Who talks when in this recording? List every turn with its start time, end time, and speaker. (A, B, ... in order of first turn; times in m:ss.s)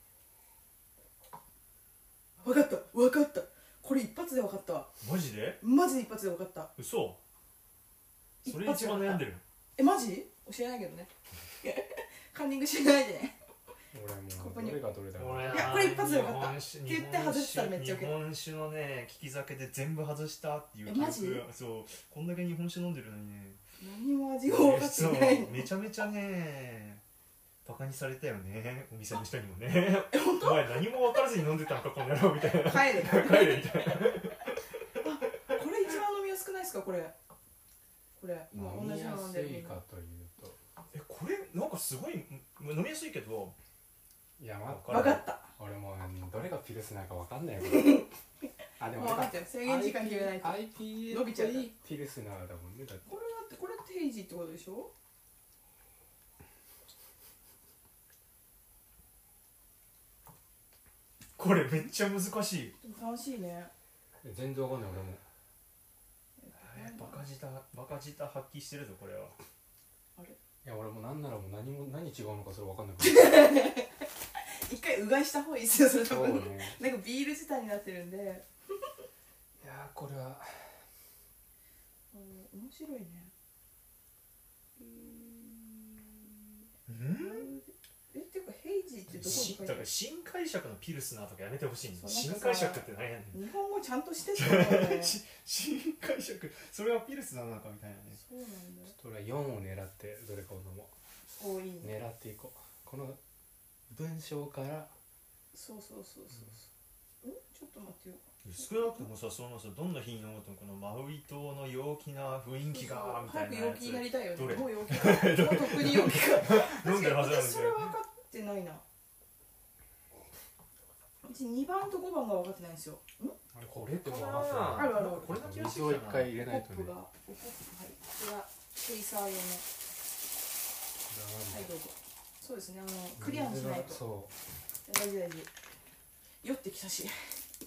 0:02.4-0:04.9 A
0:05.0-0:05.6 B
0:05.6-0:06.7 A
0:06.8-0:07.2 B
0:08.4-0:09.2 A
0:08.4-0:09.4 B
0:09.8-0:11.1 A
0:11.6-0:13.4 A
0:13.9-0:15.8 C
0:14.3-0:14.8 A
0:15.2-0:23.6 B
0:15.4-0:18.2 A
0:20.8-0:21.4 A
0:23.8-0:25.7 A
0:24.5-0:27.0 B
0:27.6-0:34.6 B
0:30.1-0:30.9 A
0:32.5-0:34.3 A
0:35.0-0:37.1 A
0:38.2-0:39.8 A
0:38.5-0:40.6 C
0:40.9-0:43.6 B
0:44.4-0:48.0 C
0:44.7-0:45.2 B
0:44.9-0:45.5 A
0:47.6-0:48.1 A
0:48.8-0:53.1 C
0:48.9-0:51.7 A
0:53.0-0:54.9 A
1:01.4-1:02.8 B
1:02.8-1:03.7 A
1:04.2-1:05.2 C
1:06.4-1:07.2 A
1:06.6-1:09.3 B
1:10.6-1:13.2 C
1:13.0-1:18.4 A
1:16.1-1:16.8 C
1:19.6-1:20.7 C
1:22.1-1:23.3 A
1:24.8-1:29.9 A
1:26.9-1:27.5 B
1:29.1-1:33.4 B
1:32.0-1:35.2 A
1:34.3-1:38.2 B
1:38.1-1:38.9 A
1:38.9-1:40.9 C
1:41.4-1:42.0 A
1:41.8-1:43.2 C
1:43.9-1:44.9 C
1:45.5-1:46.7 A
1:47.2-1:49.1 A
1:48.4-1:58.0 B
1:52.7-1:58.8 A
2:01.2-2:03.4 A
2:03.5-2:06.9 C
2:03.7-2:06.3 B
2:04.7-2:05.3 A
2:06.4-2:09.6 A
2:11.1-2:11.7 C
2:11.5-2:14.0 A
2:13.2-2:14.3 C
2:14.8-2:15.5 A
2:16.4-2:17.3 A